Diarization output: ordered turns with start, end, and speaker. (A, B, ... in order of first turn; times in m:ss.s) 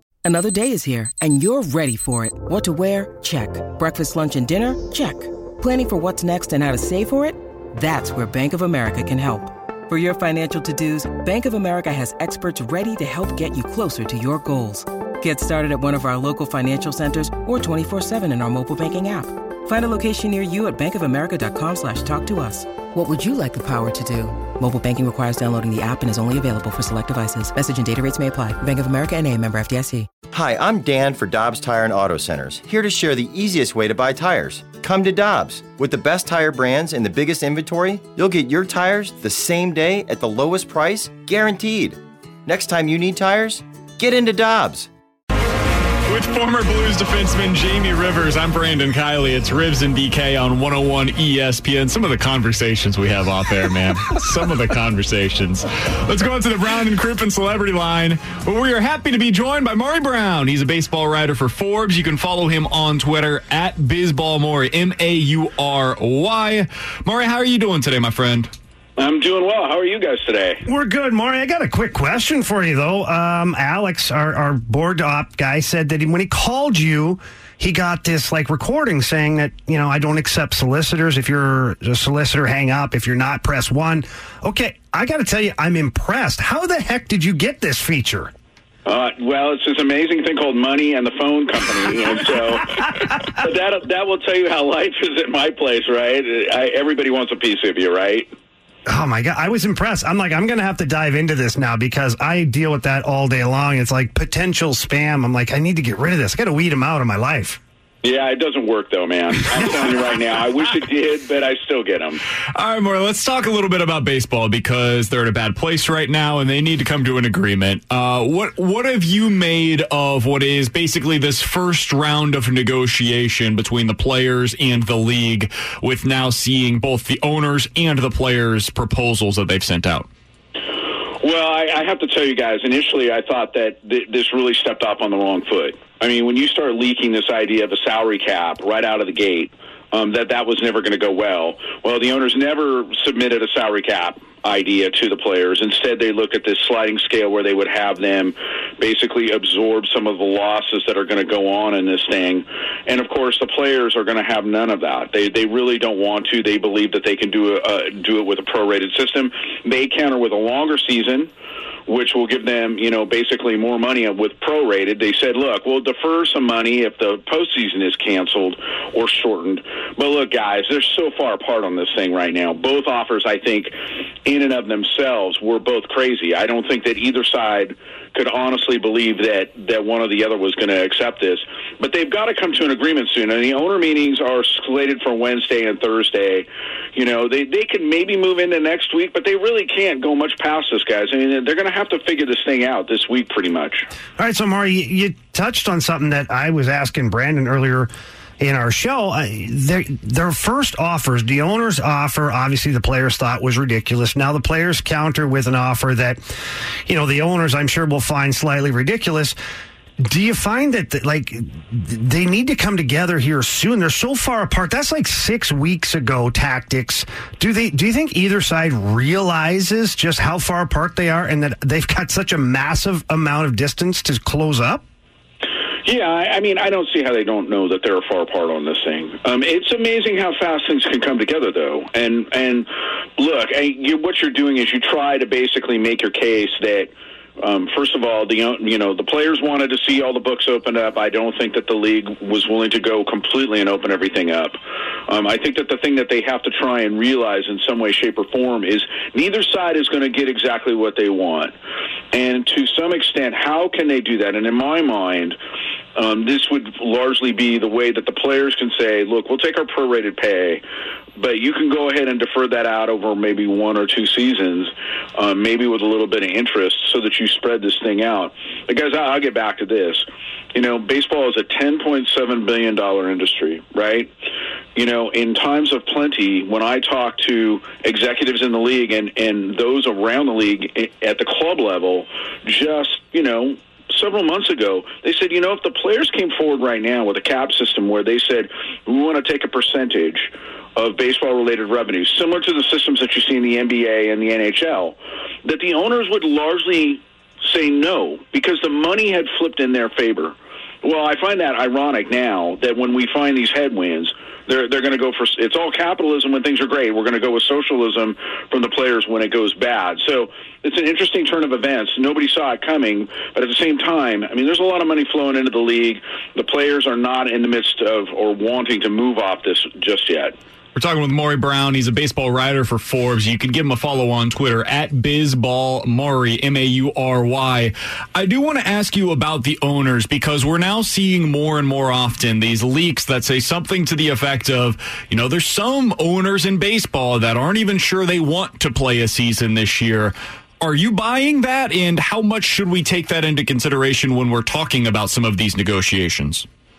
0:00.2-0:30.1 A
0:30.3-0:44.9 B
0:46.1-1:08.5 C
1:09.0-1:10.6 D
1:10.6-1:28.3 E
1:28.8-1:38.3 D
1:38.9-1:47.6 E
1:48.0-1:52.2 D
1:52.5-2:10.1 C
2:11.2-2:41.3 D
2:41.9-2:53.7 D
2:54.2-3:13.9 D
3:14.2-3:26.2 E
3:26.9-3:29.4 E
3:30.0-3:44.8 E
3:45.8-4:11.5 D
4:12.1-4:15.4 D
4:16.0-4:20.6 D
4:21.2-4:34.1 D
4:34.7-5:20.3 D
5:20.7-5:46.4 C